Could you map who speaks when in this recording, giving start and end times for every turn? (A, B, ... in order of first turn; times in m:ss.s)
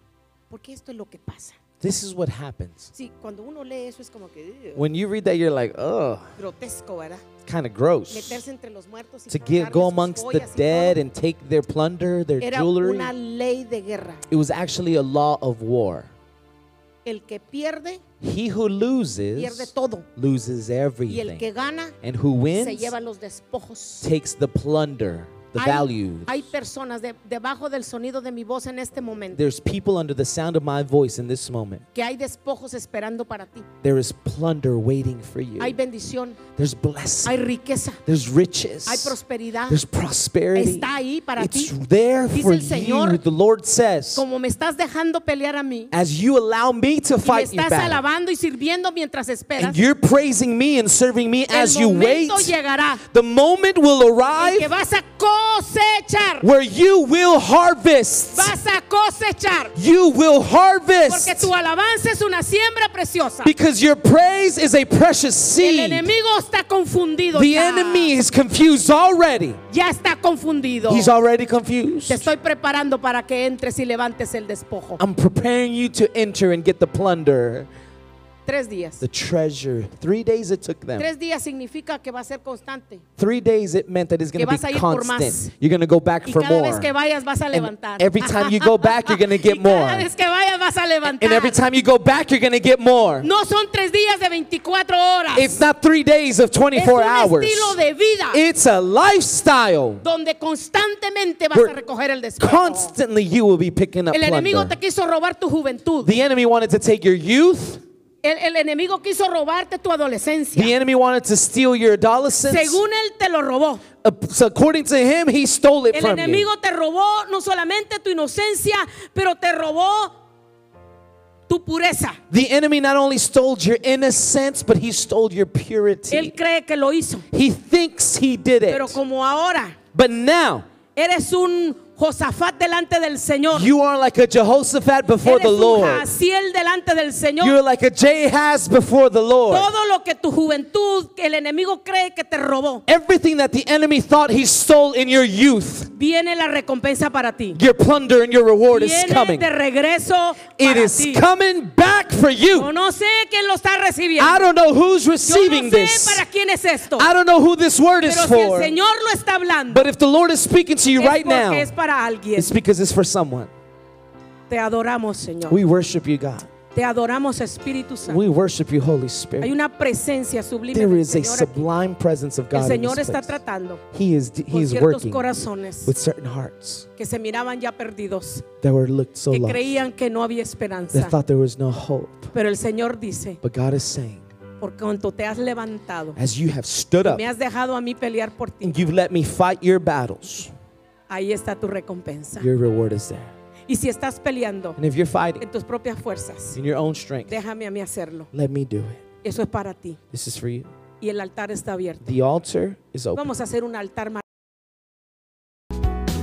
0:00.5-0:01.6 A
0:01.8-0:02.9 B
0:02.9-0:04.8 A
0:04.8-0:06.4 B
0:06.4-0:07.2 A
0:07.5-0:08.4 B
0:08.1-0:11.0 A
0:09.3-0:13.1 B
0:12.4-0:14.2 A
0:14.3-0:16.1 B
0:17.0-0:18.0 A
0:18.2-0:21.5 B
0:19.4-0:20.1 A
0:21.1-0:21.9 A
0:22.0-0:22.9 B
0:22.5-0:24.1 A
0:24.0-0:26.5 B
0:25.6-0:29.4 A
0:29.3-0:31.8 B
0:32.0-0:33.7 A
0:33.8-0:35.8 B
0:35.6-0:36.4 A
0:36.6-0:37.4 B
0:37.2-0:38.0 A
0:38.1-0:44.3 B
0:38.9-0:39.8 A
0:40.5-0:41.7 A
0:42.3-0:43.2 A
0:44.2-0:45.9 A
0:45.9-0:48.0 B
0:47.2-0:49.8 A
0:49.6-0:54.7 B
0:51.5-0:53.0 A
0:54.4-0:56.5 A
0:56.4-0:58.5 B
0:58.3-0:59.8 A
0:59.8-1:01.5 B
1:01.1-1:03.5 A
1:03.4-1:06.1 B
1:05.6-1:08.2 A
1:07.3-1:09.6 B
1:09.7-1:11.1 A
1:10.9-1:12.3 B
1:12.1-1:15.0 A
1:15.0-1:17.7 B
1:18.5-1:19.0 A
1:19.0-1:21.1 B
1:21.0-1:23.0 A
1:23.2-1:26.9 B
1:24.4-1:25.5 A
1:26.2-1:31.6 A
1:27.5-1:30.1 B
1:31.0-1:33.3 B
1:33.2-1:35.6 A
1:35.3-1:37.8 B
1:36.7-1:38.4 A
1:38.3-1:40.0 B
1:40.0-1:42.9 A
1:42.4-1:44.8 B
1:44.1-1:46.1 A
1:46.0-1:47.8 B
1:48.2-1:50.7 A
1:50.6-1:52.8 B
1:52.5-1:53.8 A
1:54.0-1:56.5 B
1:55.9-2:00.2 A
2:01.5-2:02.2 A
2:02.3-2:06.4 B
2:06.1-2:07.2 A
2:07.3-2:09.0 B
2:08.7-2:09.8 A
2:09.9-2:10.7 B
2:11.0-2:13.7 A
2:13.5-2:16.1 B
2:15.2-2:17.6 A
2:17.4-2:19.7 B
2:19.5-2:22.8 A
2:22.9-2:25.9 B
2:25.9-2:27.6 A
2:27.5-2:29.5 B
2:28.7-2:31.2 A
2:30.6-2:32.7 B
2:32.5-2:34.4 A
2:34.2-2:36.2 B
2:35.2-2:37.1 A
2:37.0-2:38.8 B
2:38.0-2:39.9 A
2:39.7-2:41.7 B
2:41.0-2:42.6 A
2:42.4-2:43.5 B
2:44.5-2:45.6 A
2:45.5-2:46.5 B
2:46.7-2:48.2 A
2:48.0-2:49.6 B
2:49.4-2:51.6 A
2:50.7-2:53.4 B
2:52.5-2:53.8 A
2:53.9-2:55.3 B
2:54.5-2:55.9 A
2:55.8-2:56.9 B
2:57.0-2:58.5 A
2:58.6-2:59.8 B
2:59.3-3:01.2 A
3:00.9-3:02.3 B
3:02.3-3:03.4 A
3:03.4-3:04.2 B
3:04.6-3:06.2 A
3:06.2-3:07.2 B
3:07.0-3:08.8 A
3:08.6-3:10.5 B
3:11.1-3:12.5 A
3:12.4-3:13.3 B
3:13.7-3:14.8 A
3:14.8-3:15.5 B
3:15.4-3:16.6 A
3:16.5-3:17.4 B
3:17.3-3:18.3 A
3:18.3-3:19.0 B
3:19.2-3:20.0 A
3:20.1-3:20.7 B
3:21.0-3:22.0 A
3:22.0-3:23.3 B
3:23.2-3:24.2 A